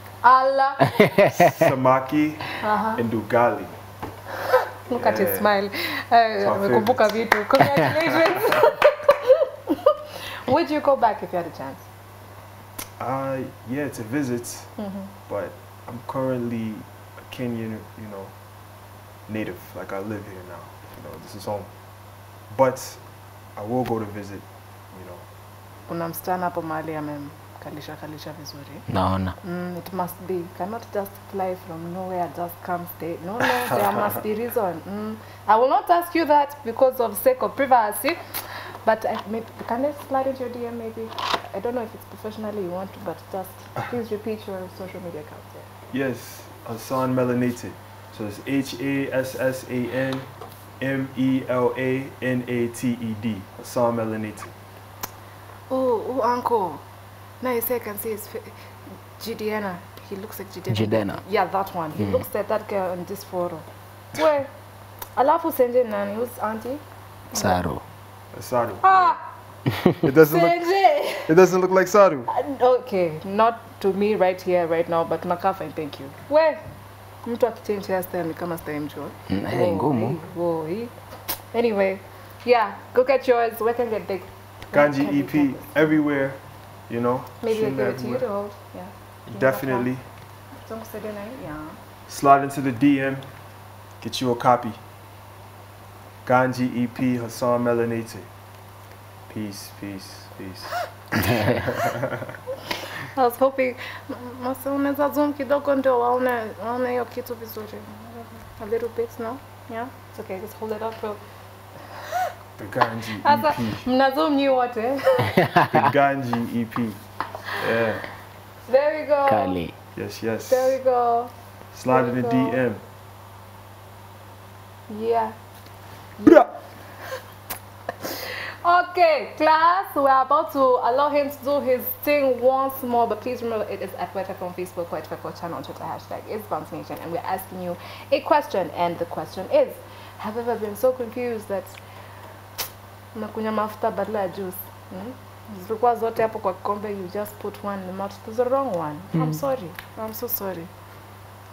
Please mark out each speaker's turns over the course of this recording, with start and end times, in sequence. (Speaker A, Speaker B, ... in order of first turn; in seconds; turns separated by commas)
Speaker A: 0.2-1.1, Speaker B: 1.0-1.5, Speaker C: 1.2-3.8, Speaker A: 2.6-3.0, Speaker A: 4.9-11.8, Speaker C: 4.9-5.5, Speaker C: 6.4-7.2, Speaker C: 13.0-14.7, Speaker A: 14.8-15.1, Speaker C: 15.3-18.3, Speaker C: 19.3-21.7, Speaker C: 22.5-23.0, Speaker C: 23.6-25.2, Speaker A: 25.9-28.9, Speaker B: 28.9-29.4, Speaker A: 29.4-38.2, Speaker A: 38.9-45.7, Speaker C: 45.9-50.3, Speaker C: 50.8-54.5, Speaker A: 55.7-56.8, Speaker A: 57.4-58.6, Speaker A: 59.2-64.5, Speaker B: 60.7-61.2, Speaker A: 65.2-66.8, Speaker A: 67.3-67.6, Speaker B: 67.3-67.8, Speaker C: 68.3-69.2, Speaker A: 68.8-69.2, Speaker C: 70.0-70.7, Speaker A: 70.2-71.4, Speaker C: 71.3-72.3, Speaker A: 72.3-76.6, Speaker A: 77.2-80.9, Speaker B: 79.3-80.2, Speaker A: 81.5-86.0, Speaker C: 84.7-88.3, Speaker A: 87.4-89.9, Speaker C: 89.3-90.0, Speaker A: 90.6-91.8, Speaker C: 92.1-93.2, Speaker C: 94.0-94.8, Speaker C: 96.2-98.3, Speaker C: 99.3-100.7, Speaker B: 101.2-101.6, Speaker C: 101.4-102.3, Speaker A: 103.0-111.2, Speaker C: 112.6-113.9, Speaker A: 113.2-115.5, Speaker B: 115.4-115.7, Speaker C: 115.7-117.0, Speaker C: 117.6-118.0, Speaker A: 118.7-119.6, Speaker B: 119.3-119.7, Speaker C: 120.0-120.8, Speaker A: 120.5-121.3, Speaker C: 121.7-122.8, Speaker A: 121.9-122.6, Speaker A: 124.9-125.3, Speaker A: 126.2-126.5, Speaker A: 128.0-141.8, Speaker A: 143.1-150.7